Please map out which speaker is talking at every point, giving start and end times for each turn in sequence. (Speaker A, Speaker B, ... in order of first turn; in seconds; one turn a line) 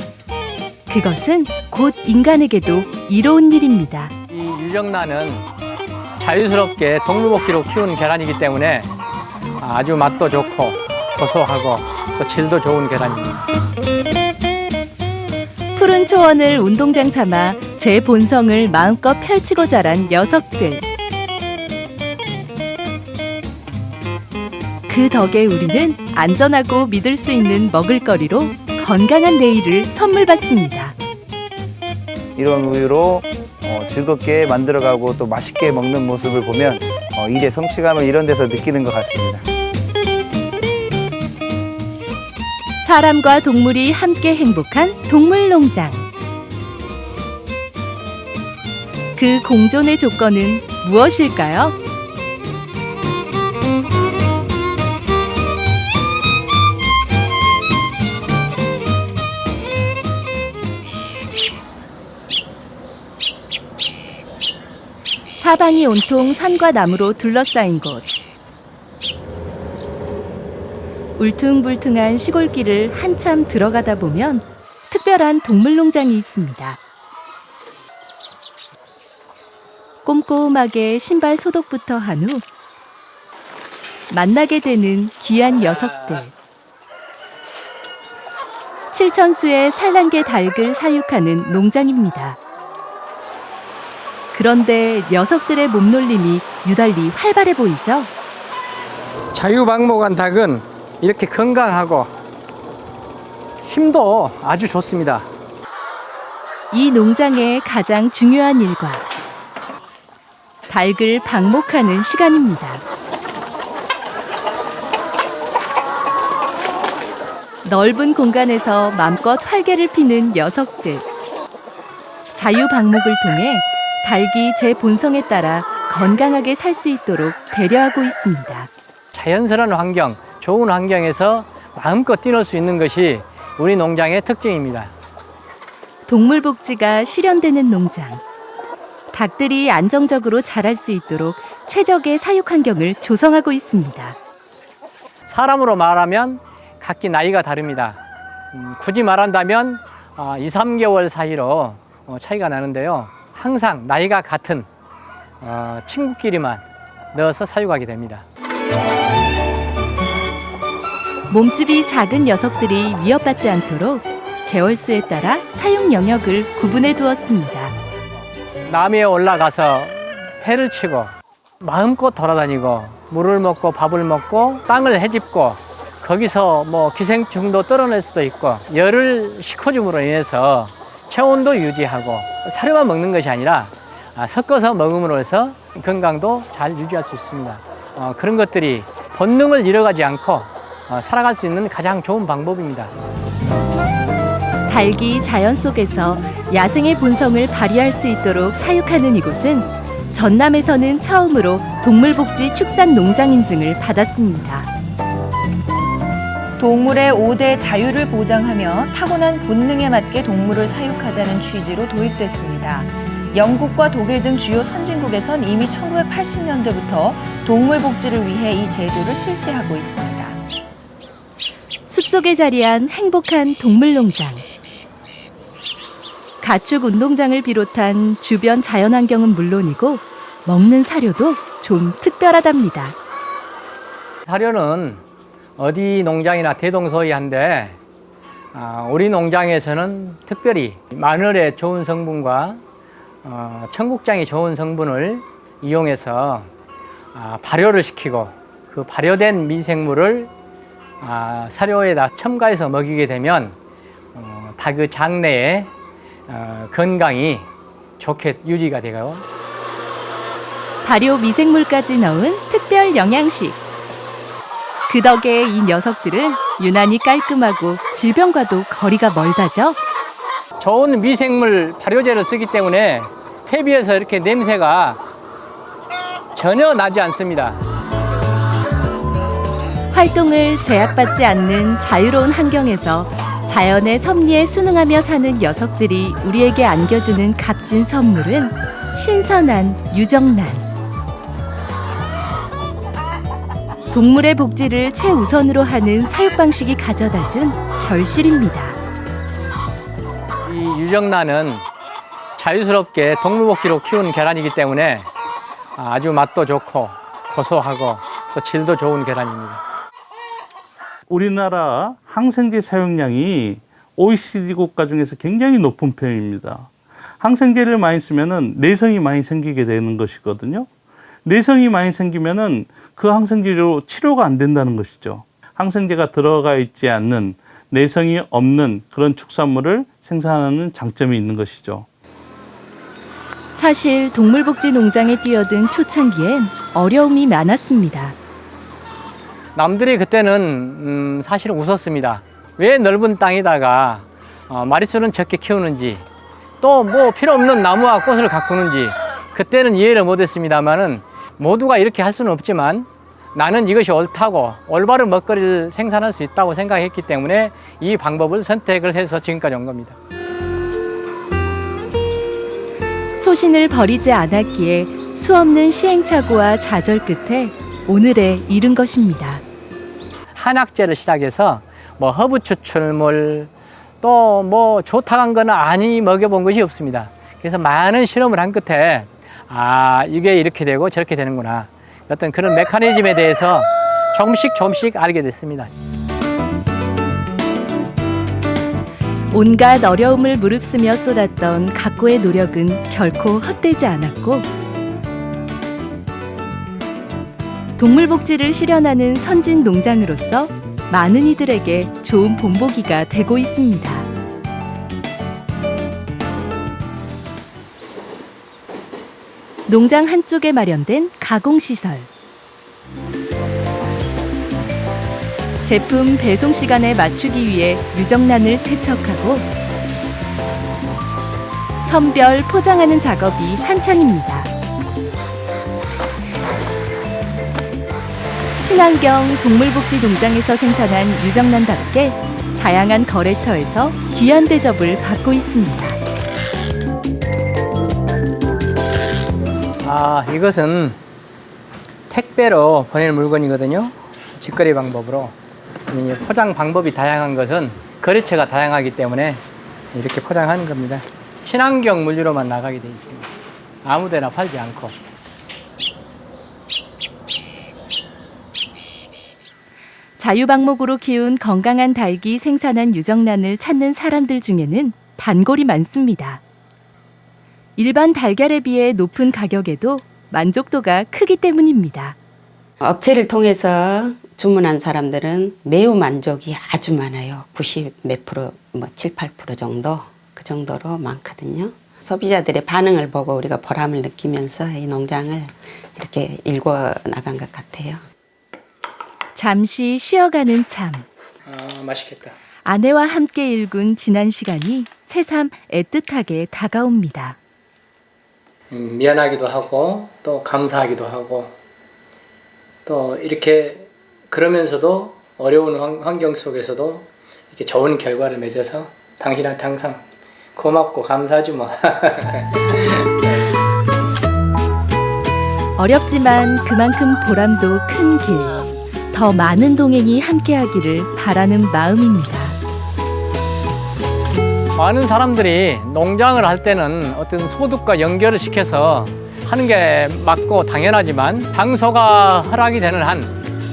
Speaker A: 0.9-4.1
Speaker B: 4.3-5.5
Speaker B: 6.2-8.9
Speaker B: 9.6-13.4
Speaker A: 15.7-20.8
Speaker A: 24.9-30.9
Speaker C: 32.4-39.4
Speaker A: 42.8-46.0
Speaker A: 49.1-51.7
Speaker A: 65.4-68.1
Speaker A: 71.2-76.8
Speaker A: 80.0-82.4
Speaker A: 84.1-86.3
Speaker A: 88.9-92.4
Speaker A: 94.3-98.1
Speaker B: 99.3-102.1
Speaker B: 103.6-105.3
Speaker A: 106.7-109.0
Speaker A: 110.7-112.8
Speaker A: 117.6-121.0
Speaker A: 122.3-128.7
Speaker B: 129.1-134.9
Speaker A: 136.1-138.2
Speaker A: 139.1-144.2
Speaker B: 145.3-148.0
Speaker B: 148.5-154.7
Speaker B: 155.4-158.2
Speaker A: 161.3-167.7
Speaker B: 168.7-192.9
Speaker A: 194.7-204.7
Speaker D: 206.6-220.4
Speaker A: 221.9-224.4
Speaker A: 226.4-232.9
Speaker B: 234.3-235.0
Speaker B: 235.6-237.8
Speaker B: 238.5-242.6
Speaker B: 243.2-246.5
Speaker B: 247.1-250.3
Speaker B: 251.0-253.5
Speaker B: 254.1-255.7
Speaker B: 256.3-257.5
Speaker B: 258.0-259.2
Speaker A: 260.8-263.6
Speaker A: 264.9-269.8
Speaker B: 270.6-275.0
Speaker B: 276.3-277.6
Speaker A: 279.9-290.7
Speaker A: 293.9-298.8
Speaker B: 300.4-301.6
Speaker B: 302.4-305.1
Speaker B: 305.8-309.6
Speaker E: 311.1-320.7
Speaker E: 321.2-331.9
Speaker A: 333.5-338.1
Speaker B: 339.6-346.0
Speaker B: 346.6-359.9
Speaker A: 363.2-369.4
Speaker B: 370.3-373.5
Speaker B: 374.0-385.7
Speaker A: 389.3-394.5
Speaker A: 397.8-404.1
Speaker A: 409.7-412.1
Speaker A: 415.6-419.5
Speaker A: 421.8-424.5
Speaker A: 428.6-436.0
Speaker B: 439.8-441.0
Speaker B: 442.1-445.3
Speaker B: 445.9-453.3
Speaker B: 453.8-454.9
Speaker A: 460.2-466.4
Speaker A: 467.8-472.2
Speaker F: 472.8-488.0
Speaker A: 489.3-491.1
Speaker B: 491.4-492.3
Speaker A: 492.6-497.4
Speaker B: 498.7-501.5
Speaker B: 502.9-510.0
Speaker B: 510.5-513.5
Speaker A: 515.8-518.6
Speaker A: 519.1-522.6
Speaker B: 524.7-533.3